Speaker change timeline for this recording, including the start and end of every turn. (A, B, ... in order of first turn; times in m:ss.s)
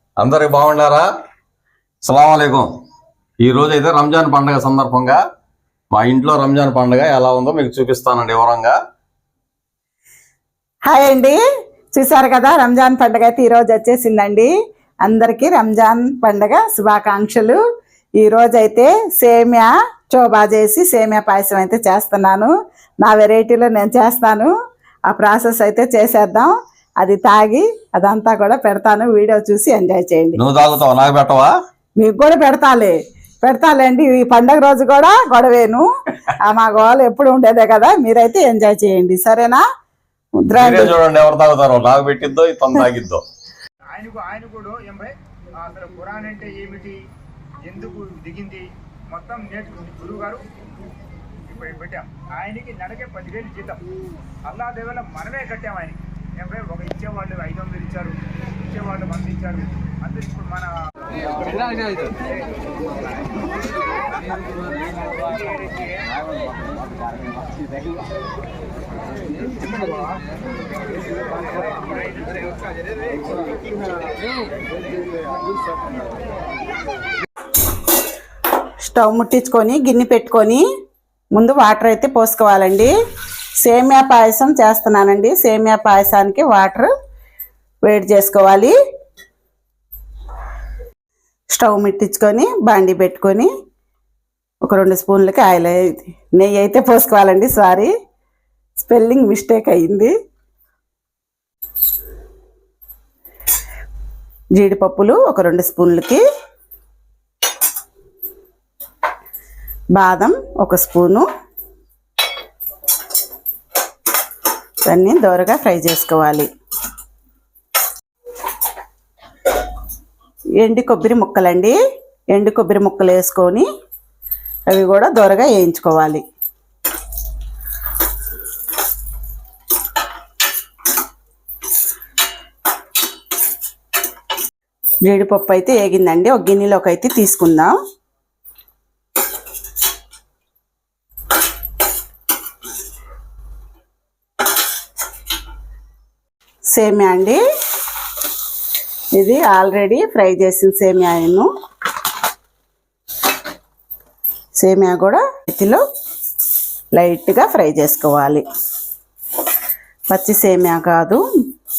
0:00.2-0:01.1 A
0:02.0-0:02.7 A
0:03.4-0:05.2 A
0:05.9-0:08.8 A
0:10.9-0:11.4 B
0:11.9-0:14.5 B
0:15.0-0:17.6 B
0:18.2-0:22.5 B
0:23.0-0:24.5 B
0:25.1-0:30.4 B
0:30.4-0:31.5 A
0:32.0-0:39.6 B
0:40.4-0:40.9 B
0:40.6-0:43.2 A
0:43.9-0:47.0 C
0:47.6-0:50.4 C
0:51.5-0:53.8 C
0:54.5-1:00.7 C
1:18.8-1:20.6 B
1:21.3-1:22.9 B
1:23.6-1:26.9 B
1:27.8-1:28.7 B
1:31.5-1:33.5 B
1:34.6-1:37.9 B
1:38.8-1:40.1 B
1:44.6-1:46.2 B
1:50.0-1:51.2 B
1:54.9-1:56.5 B
2:00.6-2:01.8 B
2:02.3-2:03.7 B
2:04.7-2:06.2 B
2:15.0-2:17.8 B
2:26.7-2:27.4 B
2:29.1-2:31.5 B
2:34.6-2:35.8 B
2:37.0-2:38.4 B
2:40.1-2:41.2 B